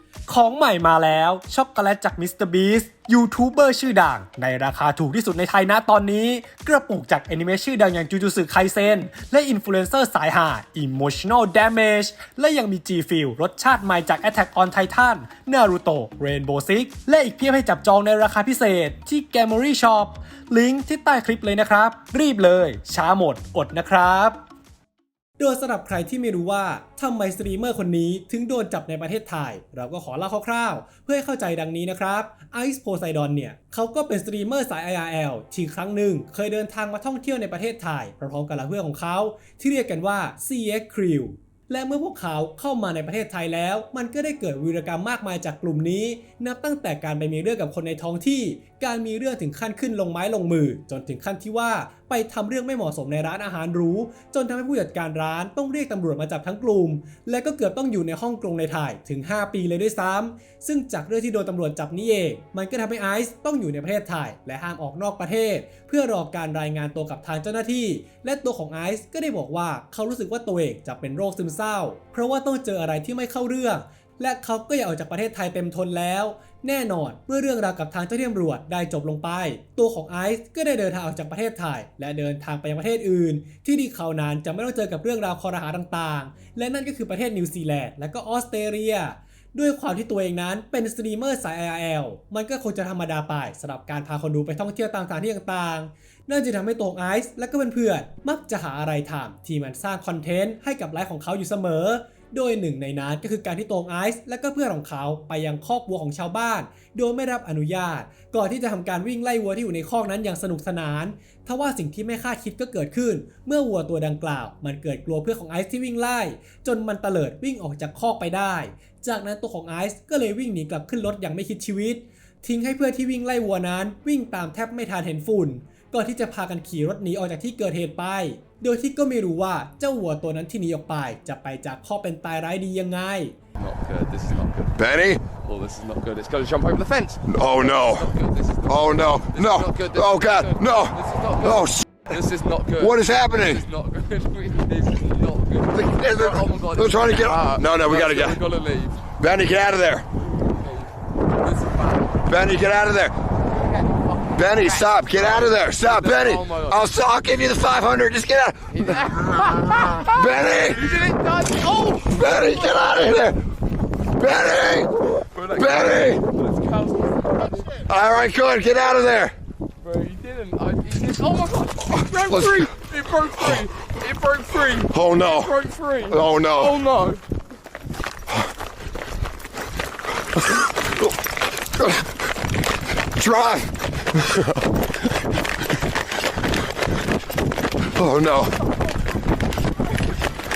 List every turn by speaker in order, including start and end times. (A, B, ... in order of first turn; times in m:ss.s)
0:00.3-0:24.4 A
0:25.4-2:13.4 A
2:13.6-2:14.7 B
2:14.8-2:15.2 C
2:15.4-2:29.1 B
2:17.3-2:18.1 C
2:18.7-2:22.1 C
2:22.8-2:23.6 C
2:25.7-2:28.4 C
2:29.2-2:30.1 C
2:30.2-2:32.3 B
2:32.3-2:33.2 C
2:33.5-2:36.8 B
2:34.4-2:39.0 C
2:38.7-2:42.8 B
2:40.0-2:40.8 C
2:42.1-2:43.4 C
2:44.2-2:46.2 C
2:45.2-2:47.9 B
2:47.9-2:49.4 C
2:49.8-2:57.2 B
2:52.1-2:52.7 C
2:54.9-2:56.8 C
3:01.8-3:02.1 C
3:03.2-3:04.5 C
3:07.9-3:08.6 C